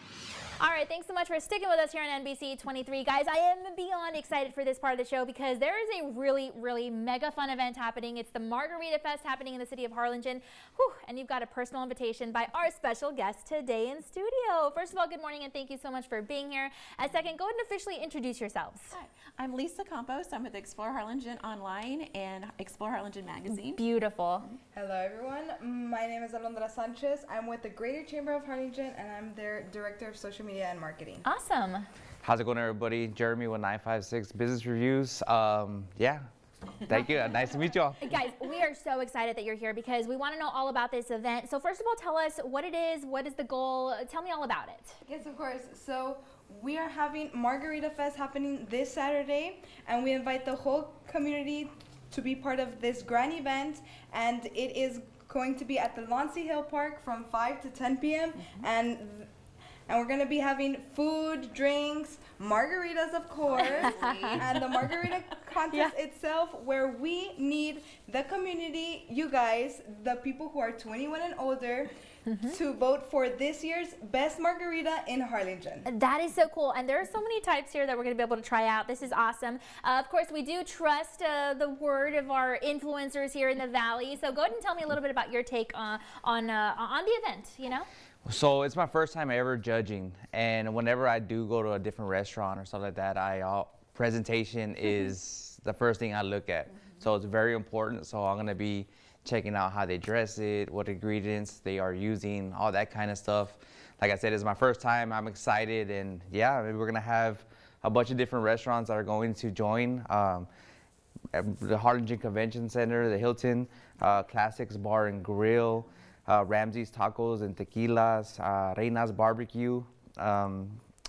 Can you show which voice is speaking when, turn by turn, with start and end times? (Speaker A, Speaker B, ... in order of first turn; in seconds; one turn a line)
Speaker A: 0.6-19.0
Speaker B: 18.9-23.9
Speaker A: 23.6-24.5
Speaker C: 24.7-31.2
Speaker A: 31.2-31.9
Speaker D: 32.2-36.2
Speaker D: 36.9-38.0
Speaker A: 38.0-45.0
Speaker C: 45.1-59.3
Speaker C: 59.9-71.9
Speaker B: 63.5-65.0
Speaker A: 63.6-64.4
Speaker A: 72.3-72.6
Speaker C: 72.5-75.9
Speaker A: 75.9-87.9
Speaker D: 88.2-110.5
Speaker D: 111.3-120.8